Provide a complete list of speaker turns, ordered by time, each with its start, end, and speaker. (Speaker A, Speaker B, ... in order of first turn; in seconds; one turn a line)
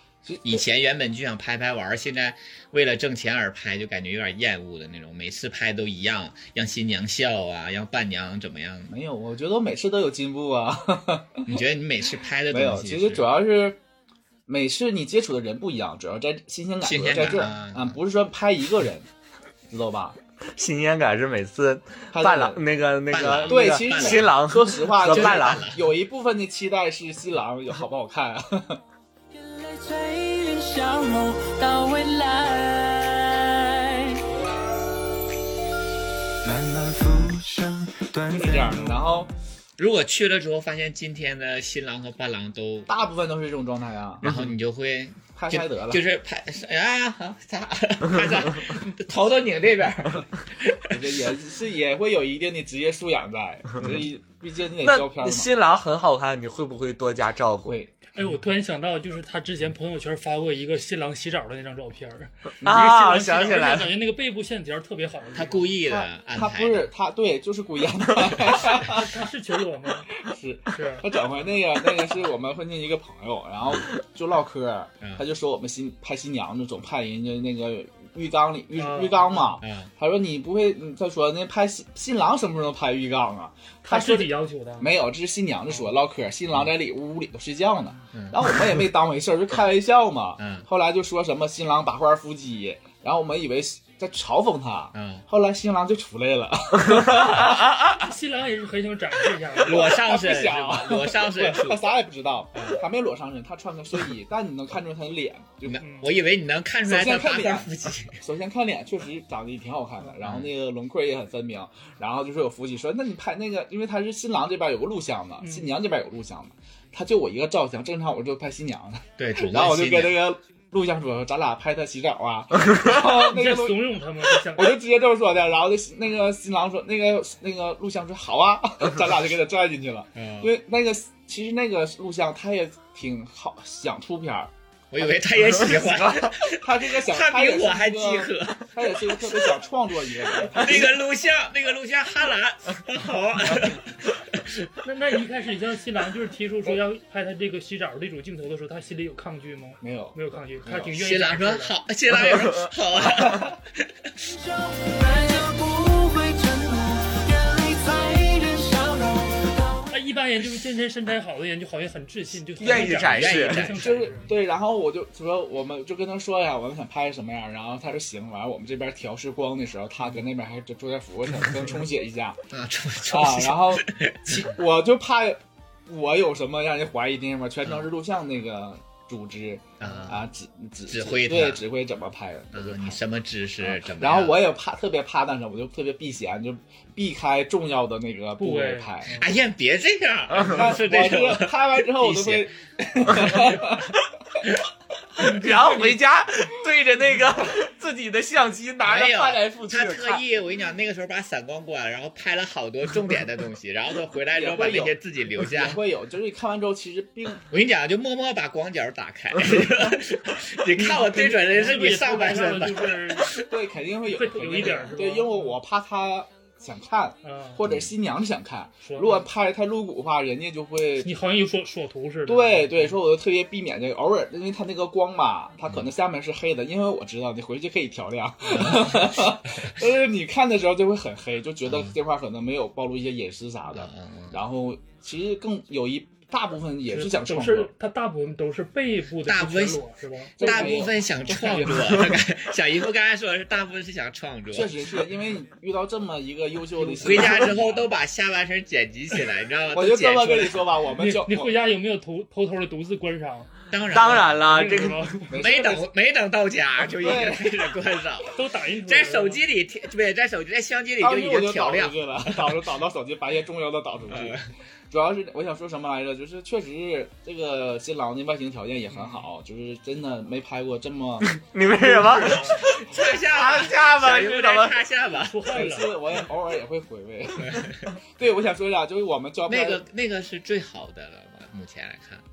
Speaker A: 0.2-0.6
Speaker B: 0.4-8.9
Speaker A: 8.9-11.5
Speaker B: 11.5-13.2
Speaker A: 12.5-13.8
Speaker A: 14.5-19.1
Speaker B: 16.8-17.9
Speaker A: 19.7-20.2
Speaker C: 20.5-25.7
Speaker A: 22.1-22.6
Speaker B: 23.1-24.3
Speaker A: 23.3-28.8
Speaker B: 25.1-25.8
Speaker D: 29.3-34.2
Speaker E: 36.4-39.1
Speaker A: 38.3-39.3
Speaker B: 39.8-42.9
Speaker A: 42.9-44.3
Speaker B: 44.2-50.9
Speaker A: 45.3-46.0
Speaker A: 50.9-55.5
Speaker C: 54.8-57.7
Speaker A: 57.6-57.9
Speaker F: 58.1-65.7
Speaker A: 62.6-63.0
Speaker C: 62.6-64.0
Speaker B: 65.3-66.9
Speaker A: 65.9-69.1
Speaker F: 68.7-70.1
Speaker A: 70.2-97.8
Speaker F: 70.7-71.1
Speaker F: 78.8-79.6
Speaker B: 79.6-79.9
Speaker F: 83.8-84.9
Speaker B: 88.1-88.4
Speaker B: 90.4-90.7
Speaker B: 94.9-95.2
Speaker F: 97.8-100.1
Speaker A: 99.5-105.8
Speaker B: 99.7-101.9
Speaker B: 102.5-102.8
Speaker B: 105.6-108.2
Speaker F: 105.8-106.1
Speaker A: 106.8-134.5
Speaker B: 110.2-110.5
Speaker F: 115.4-115.7
Speaker B: 119.2-120.2
Speaker F: 122.8-124.8
Speaker B: 130.1-130.5
Speaker B: 134.9-139.6
Speaker A: 135.6-140.9
Speaker B: 140.4-144.7
Speaker F: 144.8-151.7
Speaker A: 149.8-150.2
Speaker B: 150.7-153.6
Speaker C: 152.2-152.6
Speaker D: 154.2-159.9
Speaker F: 159.9-164.3
Speaker C: 162.6-163.7
Speaker B: 162.6-164.1
Speaker A: 163.8-172.4
Speaker B: 172.5-174.5
Speaker A: 173.1-183.0
Speaker B: 179.8-180.2
Speaker B: 180.9-181.6
Speaker B: 182.5-184.4
Speaker A: 183.6-189.2
Speaker F: 188.4-189.3
Speaker B: 189.2-192.5
Speaker A: 190.3-193.9
Speaker B: 193.0-193.8
Speaker C: 195.2-200.2
Speaker B: 198.8-205.8
Speaker A: 204.3-207.4
Speaker B: 207.5-213.4
Speaker F: 210.8-213.4
Speaker A: 213.4-221.1
Speaker F: 214.0-215.6
Speaker F: 217.2-217.6
Speaker B: 217.6-217.9
Speaker F: 218.8-219.3
Speaker F: 221.0-223.0
Speaker A: 222.2-237.7
Speaker B: 228.5-229.2
Speaker B: 231.7-231.9
Speaker B: 233.7-234.4
Speaker F: 236.9-241.7
Speaker B: 239.2-239.8
Speaker B: 240.4-244.7
Speaker A: 240.4-241.7
Speaker A: 244.5-247.8
Speaker F: 246.8-247.5
Speaker B: 247.0-250.7
Speaker A: 249.7-251.5
Speaker F: 251.0-253.5
Speaker B: 253.7-254.4
Speaker C: 253.9-255.2
Speaker F: 254.2-255.4
Speaker A: 255.3-255.9
Speaker B: 255.3-262.6
Speaker A: 257.0-257.5
Speaker F: 258.3-259.4
Speaker A: 261.0-264.4
Speaker B: 264.1-264.4
Speaker A: 264.9-272.3
Speaker F: 268.9-269.2
Speaker C: 271.3-272.6
Speaker F: 271.9-272.7
Speaker B: 272.6-275.5
Speaker C: 273.3-274.8
Speaker F: 275.2-276.0
Speaker A: 275.5-279.8
Speaker B: 277.4-277.9
Speaker B: 279.5-282.2